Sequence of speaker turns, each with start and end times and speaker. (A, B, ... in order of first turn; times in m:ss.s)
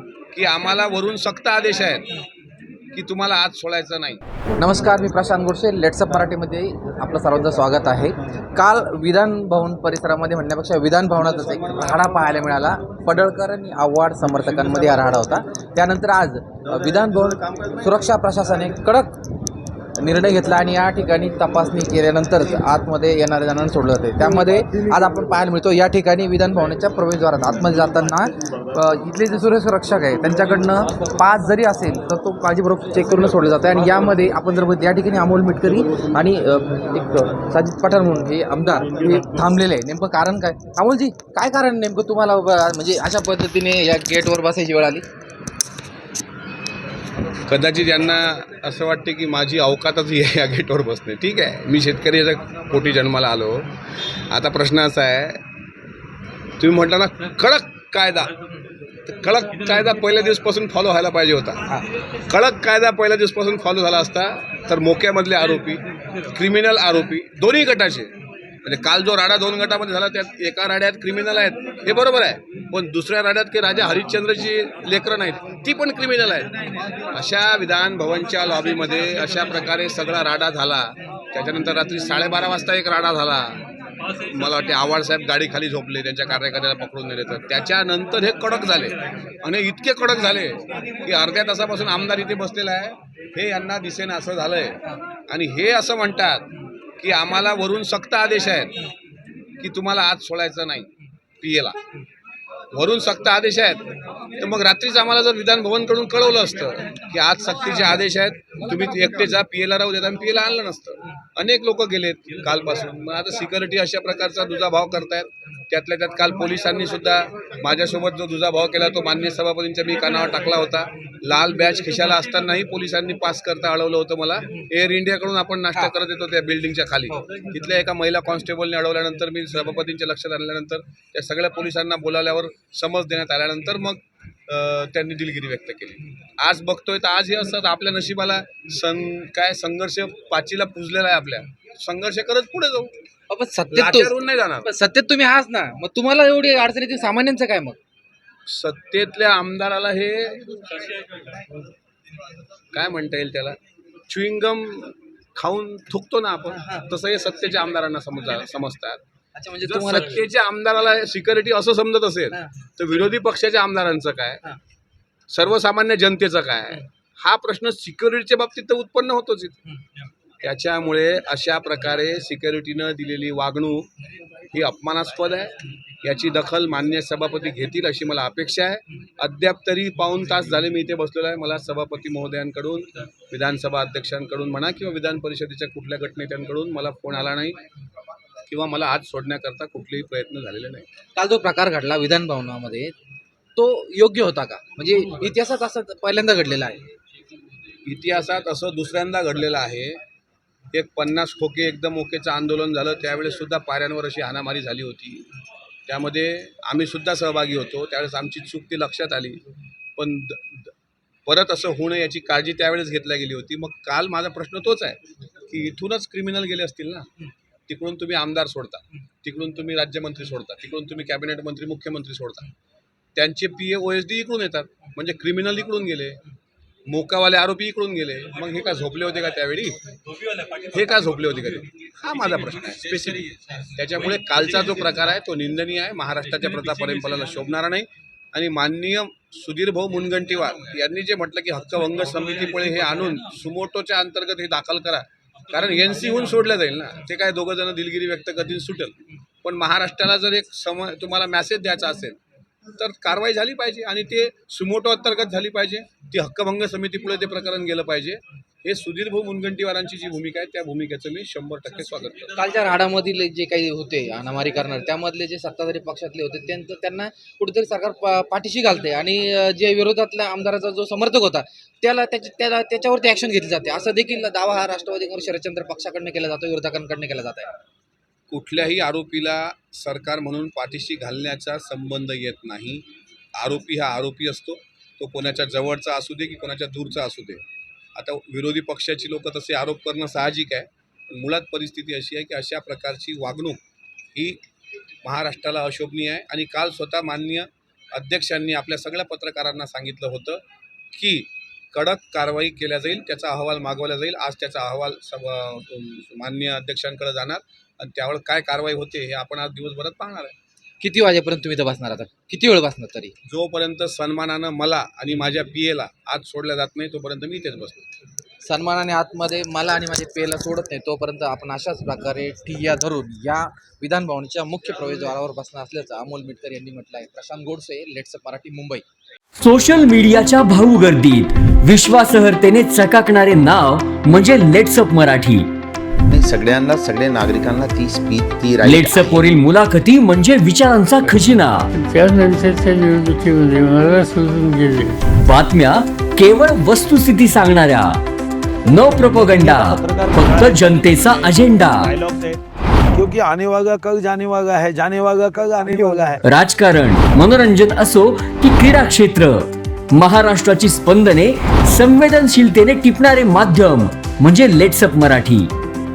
0:00.3-0:02.1 A
0:02.9-0:04.2 A
0:04.6-0:19.1 B
0:11.8-0:12.4 A
0:16.9-0:17.9 A
0:20.0-0:45.0 B
0:47.5-0:53.7 A
0:54.3-0:55.4 A
0:56.6-0:58.3 A
0:59.0-1:01.7 A
1:02.3-1:08.1 A
1:08.6-1:23.6 A
1:24.2-1:38.8 A
1:39.6-1:41.8 A
1:42.7-2:22.9 A
2:23.3-2:27.8 B
2:23.7-2:24.7 A
2:28.5-2:30.7 A
2:32.7-2:39.0 A
2:39.4-2:40.2 B
2:39.6-2:44.4 A
2:45.3-2:49.6 A
2:50.4-2:53.9 A
2:54.5-3:07.6 A
3:08.4-3:10.9 A
3:11.2-3:12.9 B
3:13.6-3:16.8 B
3:17.8-3:20.0 A
3:20.7-3:25.3 A
3:25.9-3:29.4 A
3:30.0-3:30.7 A
3:31.2-3:37.1 A
3:37.7-3:42.5 A
3:43.2-3:46.2 A
3:46.9-3:49.8 A
3:50.7-4:12.2 A
4:12.7-4:22.4 A
4:22.3-4:37.5 B
4:38.3-4:42.8 A
4:43.4-4:47.4 A
4:48.0-4:53.6 A
4:54.1-4:54.4 A
4:55.0-5:00.4 A
5:00.9-5:10.3 A
5:10.8-5:13.1 B
5:13.3-5:17.9 A
5:18.4-5:28.8 B
5:29.4-5:35.5 C
5:36.1-5:39.2 D
5:38.6-5:41.7 C
5:41.7-5:45.0 E
5:45.2-5:48.0 C
5:48.7-5:51.9 C
5:49.0-5:52.4 F
5:52.9-5:56.2 F
5:56.2-6:05.5 C